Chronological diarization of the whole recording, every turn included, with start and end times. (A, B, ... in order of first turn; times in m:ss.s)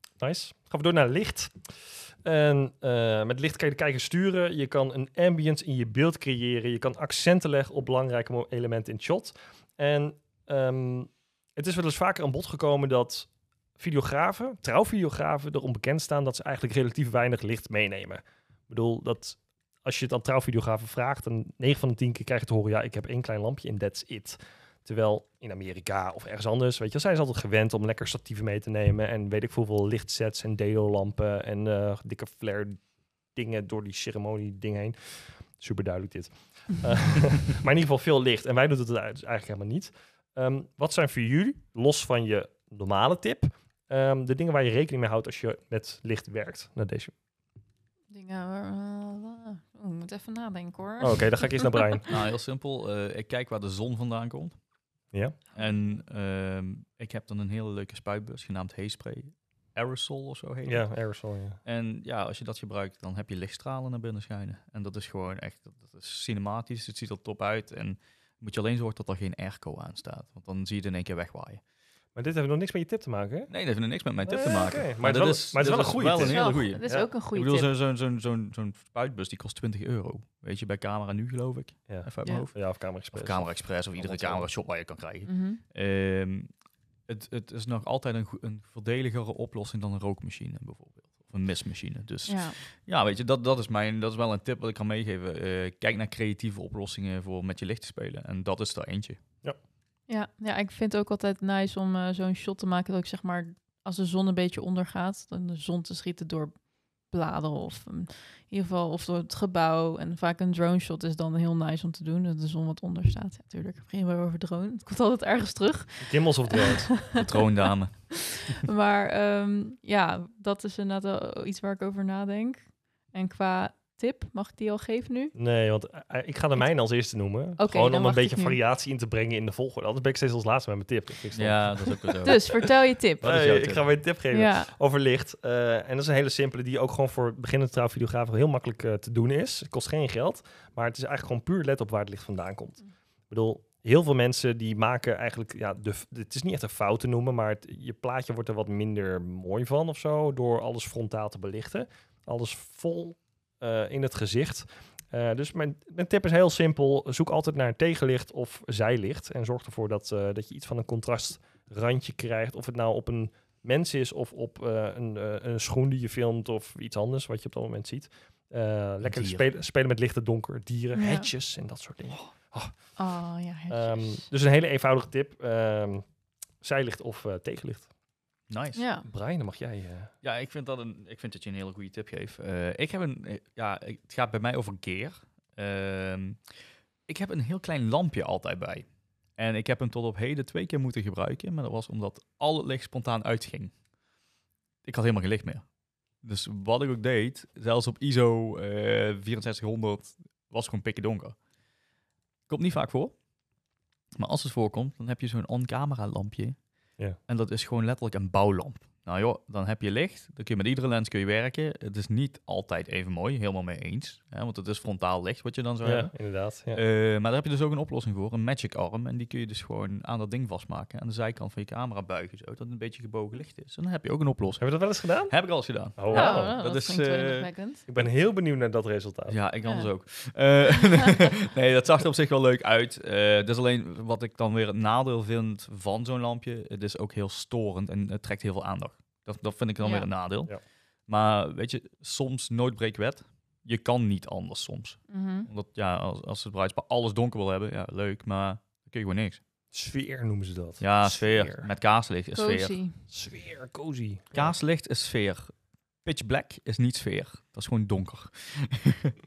0:00.2-0:47.2 A
0:48.1-0:51.7 B
0:51.0-0:52.1 A
0:52.1-0:54.7 C
0:55.1-0:55.4 A
0:55.5-1:11.6 C
1:00.6-1:01.6 A
1:12.2-1:13.5 A
1:13.5-1:39.2 C
1:14.2-1:17.1 A
1:16.2-1:17.7 B
1:21.9-1:24.5 A
1:25.2-1:25.6 B
1:32.3-1:32.6 B
1:40.1-2:05.3 B
1:56.0-1:57.0 A
1:57.1-1:58.5 C
2:05.3-2:12.5 A
2:07.6-2:08.6 B
2:11.3-2:14.0 C
2:12.2-2:13.5 B
2:13.2-2:57.9 A
2:14.3-2:14.7 B
2:49.0-2:49.5 C
2:51.0-2:51.3 B
2:53.0-2:54.3 B
2:58.5-2:58.9 C
2:58.8-2:59.1 B
2:59.0-3:00.1 A
3:00.2-3:13.8 C
3:14.8-3:21.5 C
3:22.5-3:23.3 C
3:24.2-3:48.0 C
3:35.8-3:36.8 A
3:44.6-3:46.6 A
3:46.1-3:47.8 B
3:47.9-3:49.4 A
3:49.3-4:09.4 C
3:49.6-3:49.9 B
3:59.8-4:00.1 B
4:05.1-4:05.5 B
4:09.7-4:11.7 A
4:10.8-4:12.8 C
4:12.4-4:13.0 B
4:13.1-4:14.6 A
4:14.3-4:19.0 C